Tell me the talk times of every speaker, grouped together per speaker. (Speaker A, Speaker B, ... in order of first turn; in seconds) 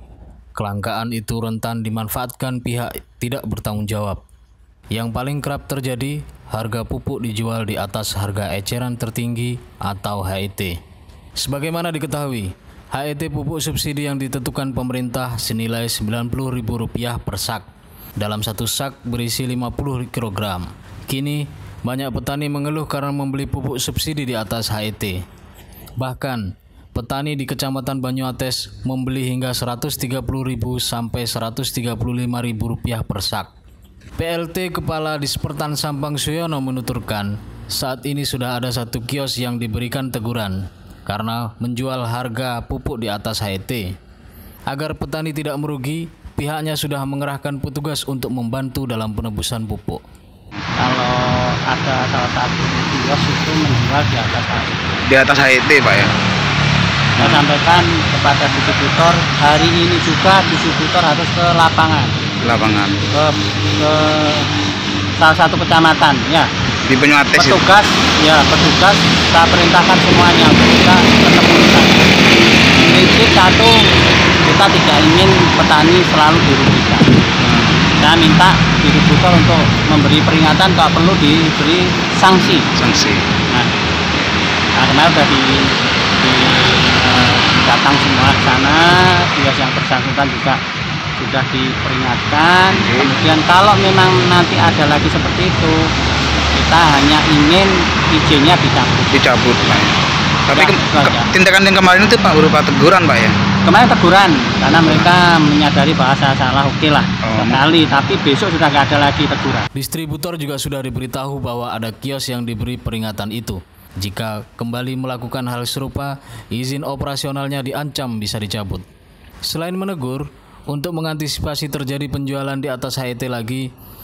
Speaker A: 0.5-4.2, 4.9-10.8, 11.4-17.7, 18.2-25.2, 26.0-33.5, 34.2-43.9, 44.7-50.0, 109.7-118.8, 119.4-123.7
Speaker B: 50.8-55.0, 57.2-62.2, 63.1-64.5, 65.2-66.5, 67.4-72.1, 72.8-77.3, 77.9-82.7, 84.7-90.6, 91.2-95.9, 96.5-99.1, 100.5-101.3, 103.6-109.7
Speaker C: 55.0-56.1, 57.2-57.4, 62.4-63.0, 66.8-67.6, 77.4-77.8, 82.8-83.2, 92.7-93.1, 99.1-99.9, 100.5-103.4, 107.2-107.6